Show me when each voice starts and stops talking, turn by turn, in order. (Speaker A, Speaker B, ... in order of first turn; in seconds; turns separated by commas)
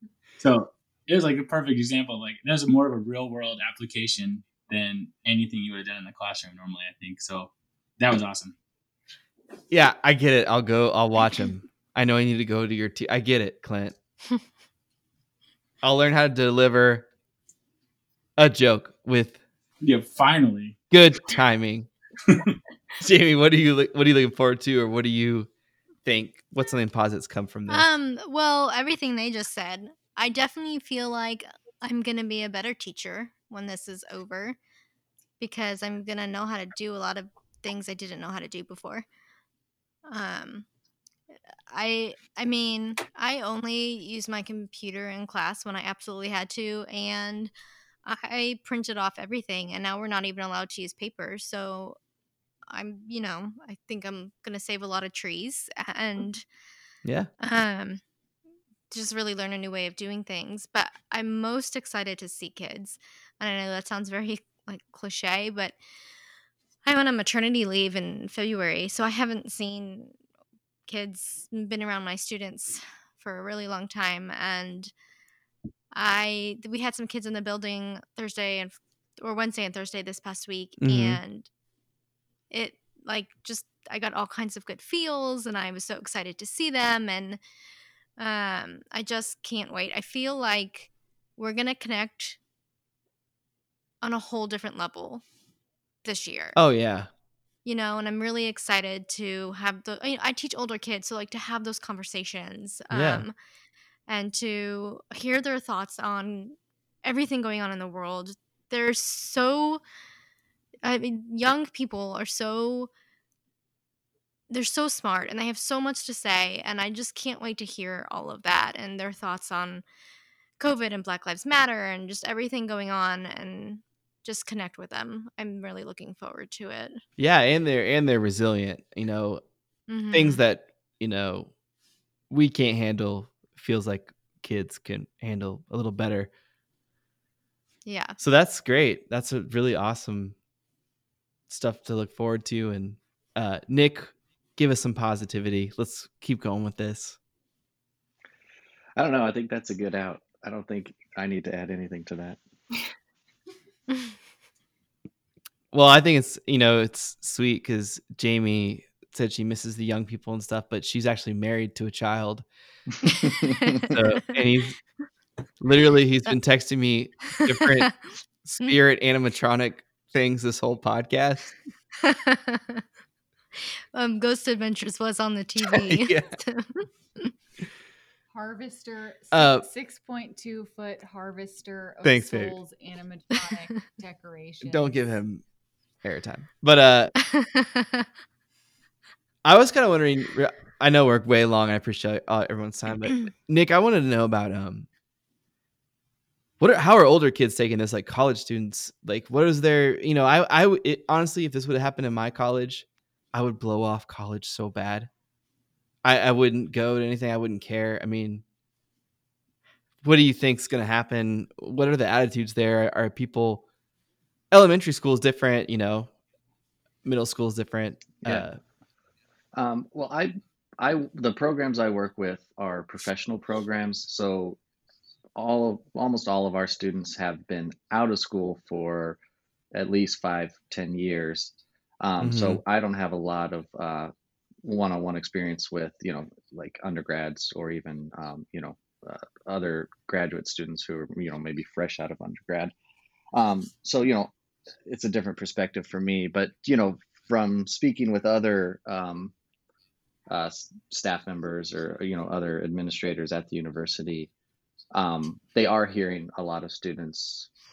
Speaker A: 0.4-8.6, Speaker B: 9.7-13.9, Speaker B: 15.8-17.1, Speaker B: 18.4-19.4, Speaker A: 19.8-20.8, Speaker B: 20.9-21.9, Speaker A: 22.3-22.6, Speaker B: 23.0-25.5, Speaker B: 26.1-27.9, Speaker C: 27.7-34.6, Speaker C: 35.4-39.0, Speaker C: 40.1-40.6, Speaker C: 41.7-47.5, Speaker C: 48.0-52.0, Speaker C: 52.7-56.4, Speaker B: 57.0-57.3, Speaker C: 57.4-58.0, Speaker C: 58.9-65.8, Speaker C: 66.8-70.1, Speaker C: 70.9-74.9, Speaker C: 75.9-81.5, Speaker B: 80.8-81.2, Speaker C: 82.5-87.4, Speaker C: 88.2-92.4, Speaker C: 94.0-95.2, Speaker C: 96.0-96.6, Speaker B: 96.5-97.1, Speaker C: 97.6-103.3, Speaker B: 102.9-103.2, Speaker C: 104.1-109.8, Speaker C: 110.8-112.9, Speaker C: 114.5-119.8, Speaker C: 120.6-127.0, Speaker B: 127.2-129.4, Speaker C: 129.9-130.4, Speaker B: 130.1-131.5, Speaker B: 132.3-136.3, Speaker C: 137.9-138.2, Speaker B: 138.2-140.3, Speaker B: 141.5-147.2, Speaker D: 148.9-152.4, Speaker B: 155.7-162.4, Speaker C: 163.2-164.0, Speaker B: 163.9-164.8, Speaker B: 165.6-167.9, Speaker B: 168.4-171.6, Speaker C: 172.0-172.8, Speaker C: 173.9-177.3, Speaker B: 175.7-176.3, Speaker E: 178.3-185.2, Speaker B: 179.3-179.6, Speaker B: 182.0-182.6, Speaker B: 184.6-185.4, Speaker B: 186.0-187.1, Speaker C: 187.2-188.1, Speaker B: 189.4-194.9, Speaker B: 196.6-205.1, Speaker B: 206.0-208.4, Speaker B: 210.0-213.6, Speaker B: 214.5-216.1, Speaker B: 217.1-218.6, Speaker D: 219.6-224.6, Speaker D: 225.4-229.2, Speaker D: 229.7-234.1, Speaker B: 232.2-232.6, Speaker D: 234.6-242.7, Speaker D: 243.3-244.3, Speaker D: 244.9-249.3, Speaker D: 250.3-254.3, Speaker D: 254.9-257.5